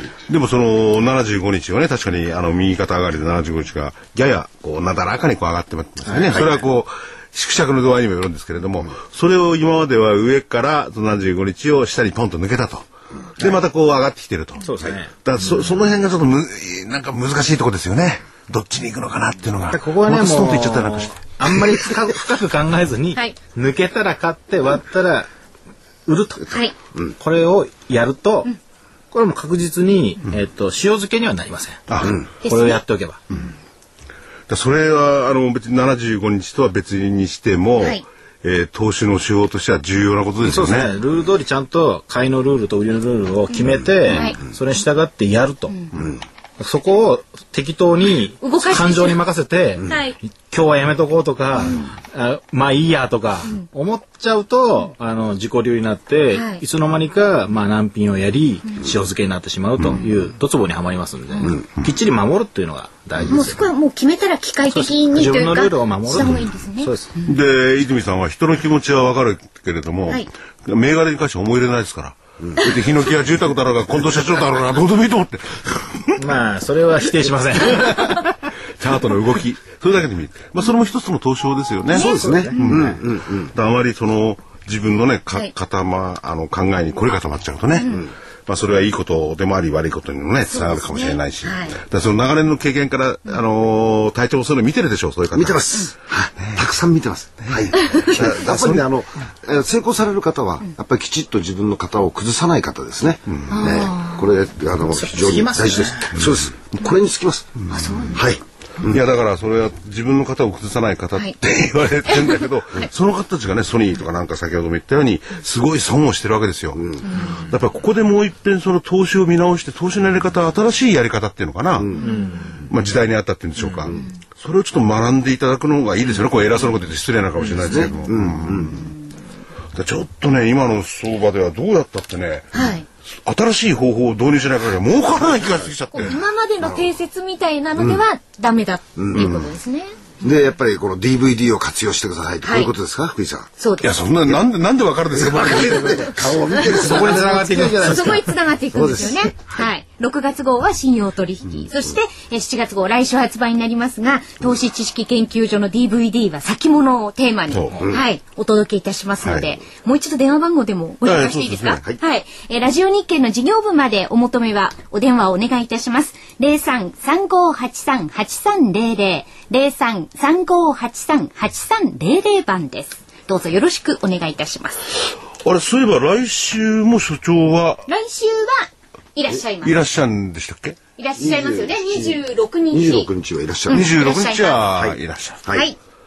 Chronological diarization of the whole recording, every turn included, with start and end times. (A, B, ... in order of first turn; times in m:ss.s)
0:00.3-0:21.1 A
0:06.0-0:06.6 B
0:14.6-0:15.6 B
0:19.7-0:25.3 B
0:26.0-0:26.6 B
0:26.5-0:26.7 C
0:27.2-0:28.5 B
0:29.1-0:33.2 B
0:31.9-0:32.2 A
0:32.4-0:32.8 C
0:34.5-0:40.9 A
0:40.4-0:45.8 B
0:44.1-0:44.4 C
0:46.6-1:03.7 B
0:48.4-0:49.2 C
0:49.8-0:50.2 C
0:56.3-0:56.6 C
1:03.3-1:06.9 C
1:04.7-1:07.1 B
1:07.2-1:16.2 A
1:12.4-1:12.7 D
1:16.2-1:18.3 B
1:18.8-1:35.6 A
1:21.9-1:23.5 D
1:21.9-1:22.8 C
1:22.0-1:22.9 B
1:27.8-1:28.1 C
1:30.5-1:31.8 C
1:35.3-1:49.0 D
1:37.5-1:38.8 A
1:43.3-1:43.6 A
1:43.5-1:44.3 C
1:44.9-1:46.2 B
1:47.7-1:48.2 C
1:48.8-2:02.1 A
1:52.1-1:52.9 C
1:56.8-1:57.0 D
1:57.1-1:57.4 C
2:01.8-2:02.0 D
2:02.0-2:02.3 C
2:02.1-2:02.4 B
2:02.6-2:08.9 A
2:07.6-2:07.9 C
2:07.7-2:08.9 D
2:09.7-2:12.7 A
2:12.5-2:12.8 C
2:13.2-2:16.2 A
2:15.9-2:20.1 C
2:19.0-2:19.5 D
2:20.2-2:23.5 D
2:22.4-2:22.7 C
2:23.6-2:23.9 C
2:23.8-2:27.4 A
2:25.1-2:29.6 D
2:26.4-2:54.8 C
2:26.8-2:28.0 B
2:37.5-2:37.8 A
2:37.8-2:38.0 D
2:39.2-2:39.5 A
2:41.0-2:41.8 A
2:55.4-2:57.8 A
2:57.9-2:59.8 C
2:59.6-3:00.8 A
3:01.0-3:03.1 C
3:01.2-3:02.2 D
3:02.7-3:04.0 D
3:03.7-3:04.7 C
3:03.7-3:05.4 A
3:04.7-3:05.6 D
3:05.5-3:05.8 C